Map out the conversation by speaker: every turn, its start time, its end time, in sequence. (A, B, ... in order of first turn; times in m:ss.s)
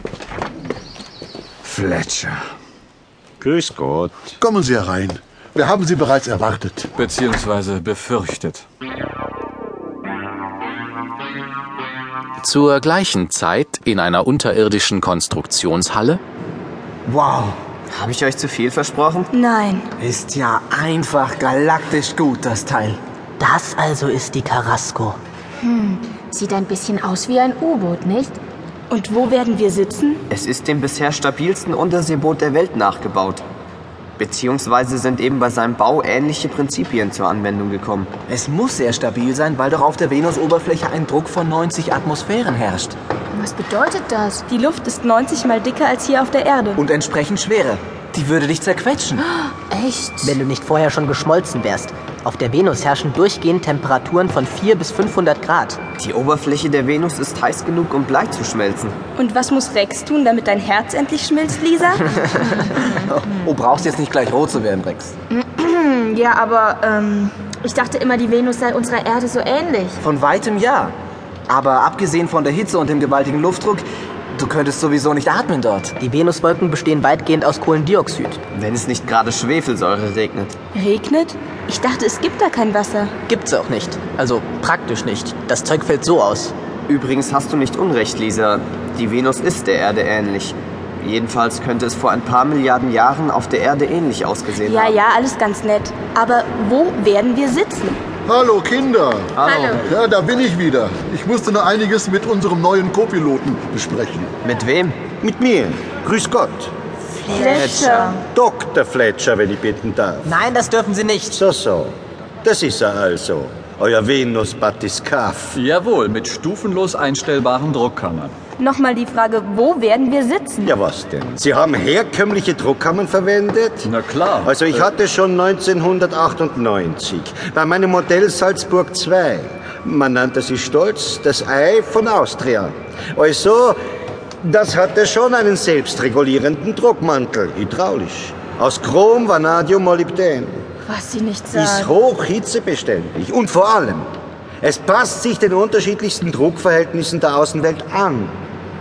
0:01.6-0:02.4 A
0:03.4-0:04.3 B
0:04.4-0:06.9 C
0:07.0-0:08.6 A
0:12.4-0:16.2 D
0:17.1-0:17.6 E
0:17.9-0:19.3 F
0:19.3-0:19.9 G
0:20.0-0:23.0 E
0:23.4-0:25.2 H
0:25.6-0:28.4 I
0:28.9-0:30.2 G
0:30.3-0:33.4 F
0:34.2-0:38.2 F
0:38.2-0:43.0 E
0:43.3-0:44.4 I
0:44.5-0:46.8 G
0:46.8-0:49.3 E
0:49.5-0:50.3 I
0:50.2-0:55.8 H
0:56.0-0:59.0 F
0:59.2-1:02.1 G
1:02.3-1:05.1 E
1:05.3-1:10.0 I
1:10.0-1:11.0 E
1:11.5-1:15.9 E
1:16.0-1:18.4 H
1:18.5-1:20.6 F
1:20.7-1:23.1 G
1:23.3-1:26.5 H
1:26.9-1:35.0 F
1:34.5-1:38.0 G
1:38.3-1:44.3 C
1:39.4-1:39.8 I
1:44.4-1:45.0 F
1:45.2-1:46.7 B
1:47.3-1:48.2 G
1:47.4-1:48.1 I
1:47.5-1:48.0 F
1:48.3-1:50.3 B
1:50.3-1:51.4 H
1:51.3-1:55.6 B
1:55.5-1:58.4 A
1:58.6-2:00.7 G
2:00.6-2:03.9 B
2:03.8-2:04.8 A
2:04.4-2:13.8 B
2:14.4-2:20.6 B
2:21.5-2:24.1 B
2:24.6-2:28.4 B